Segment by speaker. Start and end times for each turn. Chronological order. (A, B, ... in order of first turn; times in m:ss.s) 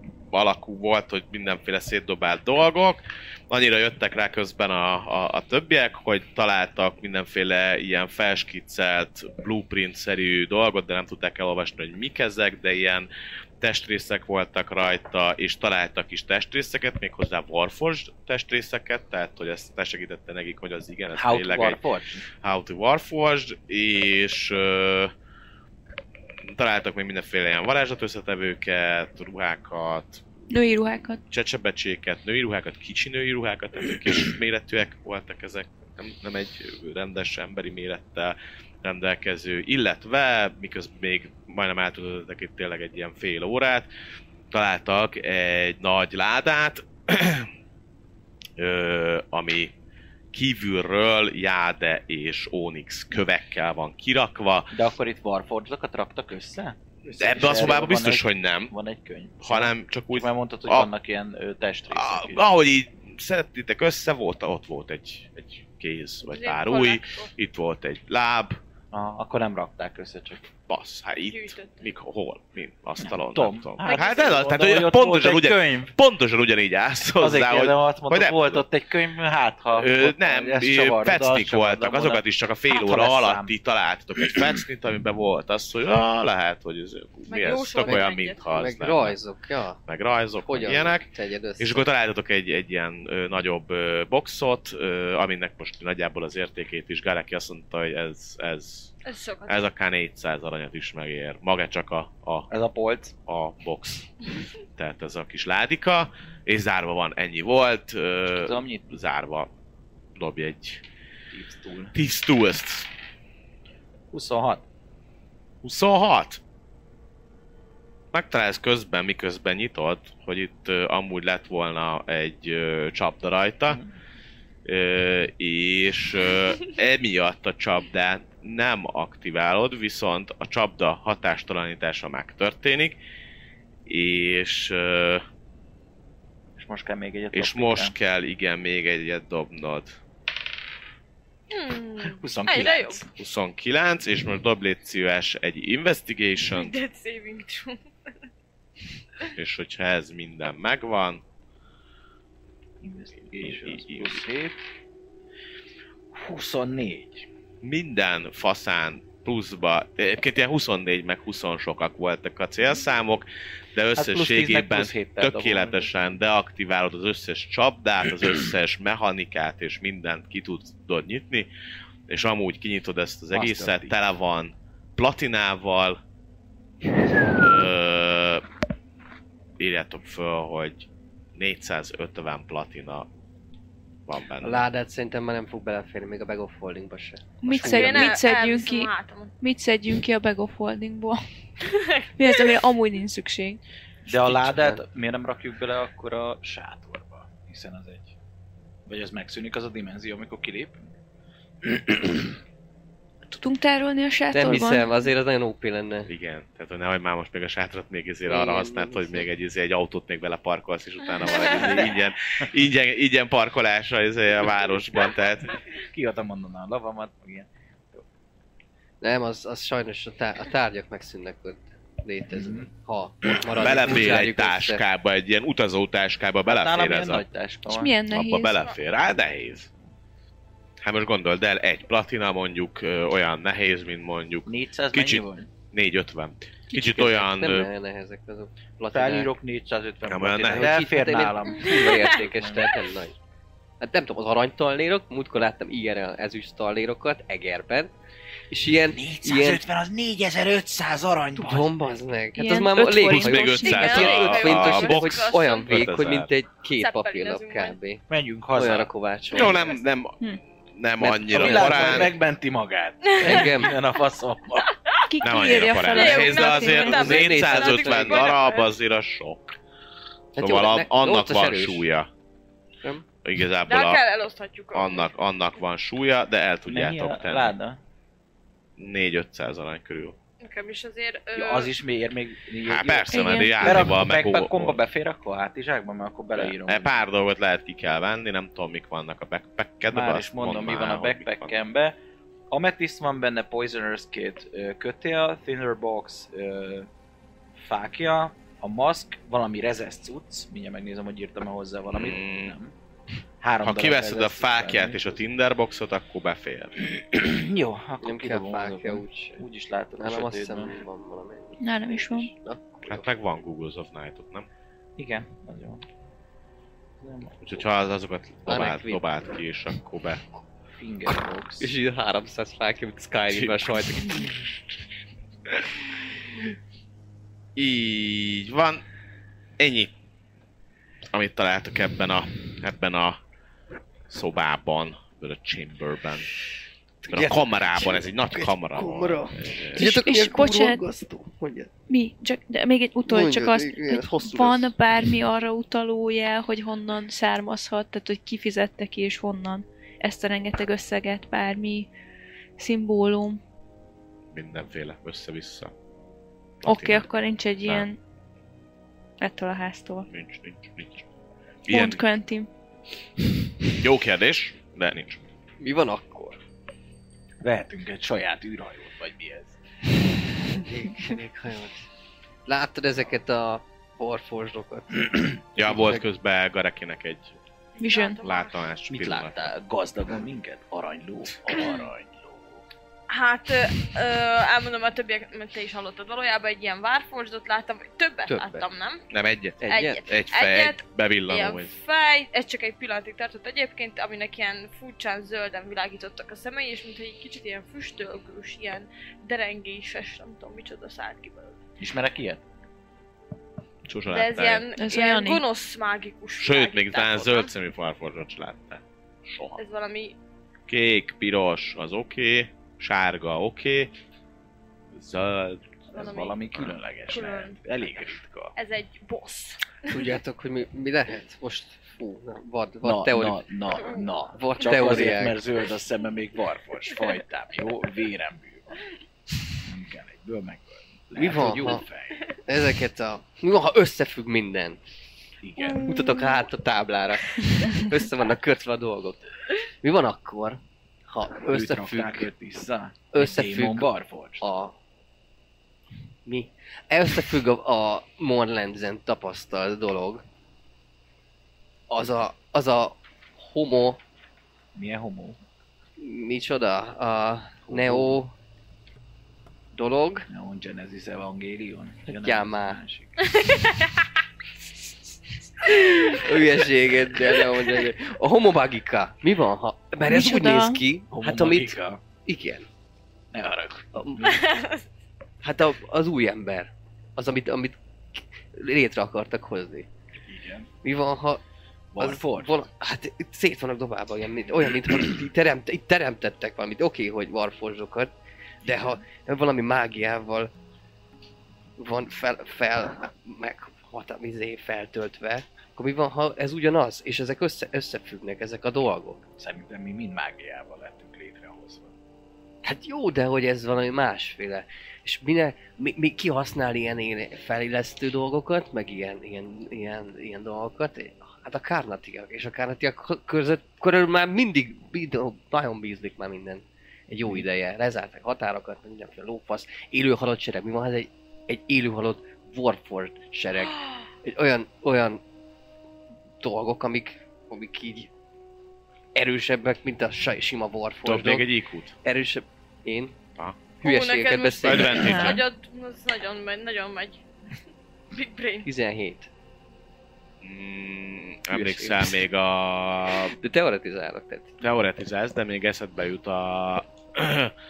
0:00.3-0:13.1 A
0:13.6-0:21.8 A
0:21.1-0:22.3 B
0:22.4-0:25.1 A
0:26.4-0:30.2 A
0:30.5-0:31.2 C
0:31.3-0:43.9 A
0:44.5-0:47.5 A
0:48.6-0:49.7 A
0:50.3-0:54.7 A
0:54.7-1:02.5 B
0:57.2-0:58.7 A
0:59.4-1:00.9 A
1:01.9-1:08.6 A
1:06.2-1:07.3 D
1:08.9-1:10.5 B
1:10.7-1:18.6 A
1:11.3-1:11.9 D
1:13.0-1:15.9 B
1:13.8-1:14.5 D
1:17.2-1:23.5 B
1:19.7-1:29.2 A
1:27.3-1:28.4 D
1:28.5-1:29.8 E
1:29.9-1:38.9 A
1:30.4-1:31.9 E
1:39.0-1:39.7 D
1:39.5-1:42.5 A
1:42.5-1:43.2 B
1:43.3-1:44.1 A
1:44.8-1:49.5 A
1:48.3-1:49.0 B
1:50.2-1:50.8 A
1:51.3-1:52.0 B
1:52.0-1:52.9 A
1:54.1-1:54.6 B
1:55.6-1:56.4 A
1:58.1-2:03.8 A
2:04.6-2:13.0 A
2:13.9-2:15.2 A
2:16.6-2:18.0 B
2:17.3-2:20.0 A
2:21.5-2:23.0 D
2:22.0-2:23.1 B
2:23.2-2:26.8 A
2:26.4-2:28.2 D
2:29.4-2:31.2 A
2:32.8-2:34.6 B
2:33.4-2:34.2 A
2:36.1-2:37.3 B
2:37.6-2:51.5 A
2:44.0-2:45.9 B
2:52.1-2:56.0 A
2:53.3-2:54.0 B
2:57.3-2:58.4 A
2:59.6-3:03.1 A
3:04.1-3:04.7 A
3:04.4-3:08.2 E
3:07.4-3:11.2 C
3:07.6-3:09.3 D
3:11.6-3:12.6 D
3:12.2-3:13.6 C
3:14.1-3:18.1 B
3:14.1-3:14.8 E
3:18.9-3:20.9 B
3:21.6-3:22.4 B
3:23.3-3:24.9 C
3:24.3-3:26.1 E
3:26.1-3:35.6 A
3:28.3-3:29.3 E
3:31.2-3:31.9 D
3:35.7-3:38.0 B
3:39.0-3:44.8 E
3:42.3-3:42.7 B
3:43.5-3:47.2 A
3:46.4-3:48.0 B
3:47.7-3:48.6 C
3:48.1-3:49.7 A
3:50.8-3:57.7 A
3:54.5-3:55.5 B
3:56.7-3:59.3 E
3:58.9-4:02.8 B
4:00.1-4:00.8 A
4:00.5-4:03.2 E
4:03.8-4:07.9 E
4:08.5-4:09.6 E
4:08.9-4:11.8 B
4:11.4-4:18.0 E
4:12.4-4:14.1 C
4:13.0-4:16.3 A
4:13.6-4:16.0 D
4:16.8-4:17.8 D
4:18.1-4:18.9 B
4:18.6-4:19.8 E
4:19.3-4:20.2 A
4:20.7-4:22.1 A
4:21.0-4:22.1 E
4:21.3-4:24.8 B
4:23.1-4:23.6 D
4:23.2-4:23.8 E
4:24.8-4:28.7 D
4:25.1-4:27.2 C
4:25.2-4:29.6 A
4:26.9-4:28.4 E
4:30.4-4:31.9 E
4:30.4-4:32.1 A
4:33.2-4:34.0 A
4:33.7-4:35.1 D
4:34.7-4:37.6 A
4:36.7-4:37.8 B
4:38.8-4:40.2 A
4:40.4-4:41.7 D
4:41.4-4:47.0 B
4:42.7-4:44.8 A
4:43.1-4:44.0 C
4:46.4-4:51.6 A
4:49.9-4:52.0 B
4:52.5-4:56.9 B
4:57.6-5:02.7 B
5:01.9-5:02.5 A
5:03.4-5:05.2 B
5:03.6-5:06.9 A
5:06.9-5:10.8 B
5:08.0-5:09.4 E
5:10.0-5:13.2 E
5:11.6-5:12.3 C
5:12.9-5:14.5 A
5:15.0-5:15.8 B
5:17.0-5:17.6 B
5:17.4-5:20.2 A
5:18.5-5:19.0 E
5:20.7-5:21.7 B
5:21.6-5:24.4 E
5:23.3-5:24.3 A
5:27.6-5:28.8 A
5:29.6-5:29.9 A
5:31.1-5:33.2 A
5:34.1-5:36.3 A
5:37.0-5:41.7 E
5:37.1-5:39.9 A
5:39.8-5:40.8 C
5:41.9-5:51.9 C
5:43.0-5:44.7 E
5:52.6-5:53.4 C
5:54.3-5:55.7 A
5:56.6-5:57.1 A
5:56.6-5:58.0 C
5:59.2-6:00.1 C
6:00.1-6:01.0 A
6:01.7-6:02.1 A
6:01.7-6:02.5 C
6:03.7-6:05.2 A
6:05.6-6:06.4 E
6:07.4-6:09.6 B
6:10.5-6:11.9 E
6:12.5-6:16.0 E
6:15.6-6:17.4 A
6:17.8-6:18.7 D
6:17.8-6:18.2 C
6:18.2-6:19.5 A
6:18.9-6:22.6 B
6:21.5-6:21.9 D
6:23.1-6:29.1 D
6:28.3-6:28.7 E
6:29.1-6:31.7 A
6:29.6-6:30.1 E
6:29.7-6:41.6 D
6:41.8-6:42.4 B
6:43.9-6:44.6 A
6:44.1-6:47.5 D
6:44.8-6:45.4 C
6:46.4-6:49.6 A
6:49.6-6:50.2 D
6:50.7-6:53.9 A
6:55.0-6:55.8 A
6:55.9-6:57.6 D
6:55.9-6:58.6 B
6:58.6-7:00.1 D
6:59.9-7:03.5 E
7:02.8-7:08.8 B
7:03.8-7:04.1 D
7:04.2-7:05.4 E
7:09.6-7:12.3 B
7:11.2-7:11.8 E
7:12.5-7:14.8 E
7:15.4-7:16.0 B
7:15.8-7:19.2 E
7:19.8-7:22.3 E
7:21.5-7:24.5 B
7:23.1-7:24.8 E
7:26.3-7:30.2 E
7:31.9-7:34.0 E
7:34.8-7:35.4 B
7:36.0-7:38.3 E
7:37.7-7:38.2 B
7:39.7-7:40.3 E
7:40.3-7:43.3 B
7:42.1-7:42.8 E
7:43.3-7:43.9 D
7:45.6-7:52.7 E
7:50.1-7:50.8 C
7:51.1-7:52.0 B
7:53.3-7:54.0 B
7:54.0-7:54.5 E
7:54.2-7:54.9 D
7:55.4-7:59.9 E
8:00.3-8:00.7 B
8:00.8-8:01.4 E
8:01.9-8:02.6 B
8:02.0-8:08.1 E
8:08.6-8:10.5 E
8:11.8-8:19.2 E
8:19.4-8:21.9 B
8:22.6-8:45.2 E
8:46.4-8:48.1 E
8:49.2-8:51.5 E
8:51.0-8:51.9 A
8:52.0-8:53.2 E
8:53.8-8:55.4 E
8:53.8-8:57.2 D
8:54.6-8:55.4 A
8:55.0-8:55.4 C
8:58.1-8:58.7 D
8:58.6-8:59.3 E
9:00.4-9:03.4 A
9:01.5-9:02.2 E
9:03.4-9:04.6 E
9:04.6-9:07.5 A